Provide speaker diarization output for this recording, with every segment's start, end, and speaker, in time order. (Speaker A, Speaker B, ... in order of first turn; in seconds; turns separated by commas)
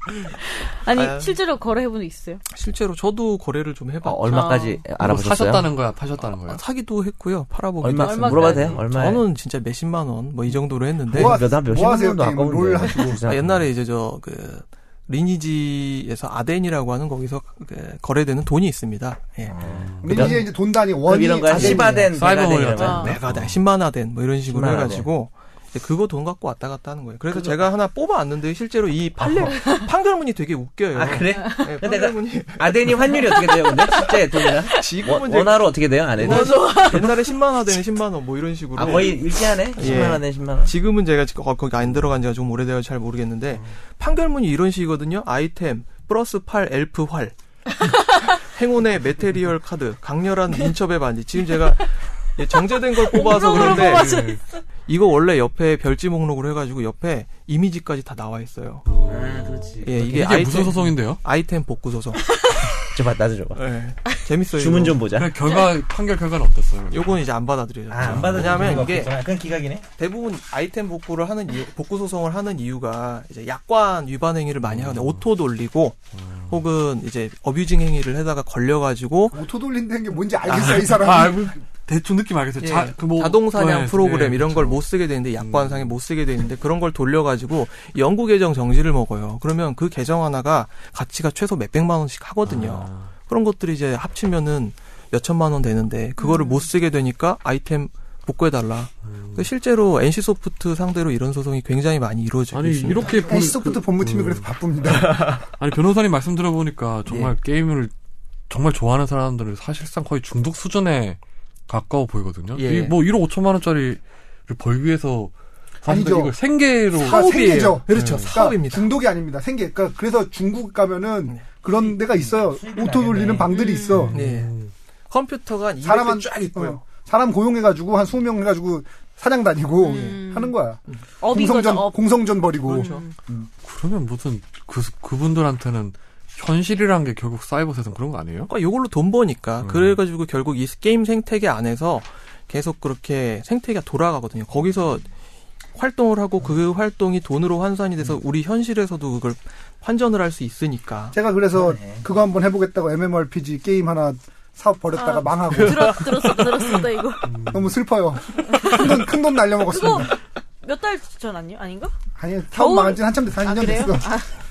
Speaker A: 0.5-2.4, Speaker B: 0.9-1.4, Speaker B: 2.5-4.6, Speaker C: 4.0-5.7, Speaker A: 4.3-4.8, Speaker D: 5.0-6.6, Speaker B: 6.2-11.4, Speaker C: 7.8-9.2, Speaker A: 8.0-8.8, Speaker E: 11.1-13.2, Speaker C: 11.1-13.6, Speaker B: 13.2-20.4, Speaker C: 19.5-20.5, Speaker D: 19.6-20.4, Speaker E: 20.0-22.1, Speaker C: 21.0-23.1, Speaker D: 21.5-23.6, Speaker B: 21.5-21.9, Speaker A: 22.8-23.1, Speaker B: 22.8-33.1, Speaker C: 24.5-25.1, Speaker C: 30.9-36.9, Speaker A: 31.3-31.7, Speaker A: 33.2-34.9, Speaker B: 34.7-47.4, Speaker A: 36.2-37.3, Speaker C: 38.7-40.7, Speaker B: 48.0-54.3, Speaker A: 53.0-54.4, Speaker D: 53.4-54.4, Speaker B: 54.9-58.9, Speaker D: 58.9-61.2, Speaker C: 59.1-60.1, Speaker B: 59.8-62.4, Speaker A: 62.3-62.7, Speaker C: 62.9-63.6, Speaker B: 63.5-65.0, Speaker C: 64.5-65.3, Speaker D: 65.1-67.2, Speaker B: 66.9-69.2, Speaker C: 67.9-69.8, Speaker D: 68.0-68.9, Speaker B: 70.0-79.4, Speaker D: 74.6-75.2, Speaker D: 76.1-76.6, Speaker E: 79.3-81.5, Speaker D: 80.5-84.8, Speaker B: 82.6-103.2, Speaker D: 85.4-85.9, Speaker D: 92.4-93.1, Speaker A: 96.2-96.7, Speaker D: 99.0-99.5, Speaker D: 102.5-107.9, Speaker E: 103.3-105.2, Speaker B: 105.0-105.4, Speaker B: 107.1-107.3, Speaker D: 108.5-118.3, Speaker B: 112.5-113.0, Speaker E: 115.8-116.3, Speaker E: 117.0-124.2, Speaker B: 117.0-118.9, Speaker C: 121.7-123.5, Speaker A: 123.5-124.1, Speaker D: 123.9-124.7, Speaker B: 124.1-124.5, Speaker B: 125.1-126.8, Speaker E: 125.8-133.5, Speaker A: 129.8-130.5, Speaker A: 131.2-133.1, Speaker B: 132.7-133.1, Speaker D: 133.6-138.5, Speaker B: 138.5-145.1, Speaker D: 139.6-140.0, Speaker B: 145.7-151.2, Speaker E: 151.1-156.1, Speaker C: 151.5-152.0, Speaker A: 154.9-157.2, Speaker D: 157.2-157.8, Speaker E: 157.5-160.1, Speaker A: 158.5-159.1, Speaker A: 159.7-161.9, Speaker E: 162.2-164.1, Speaker A: 162.5-164.3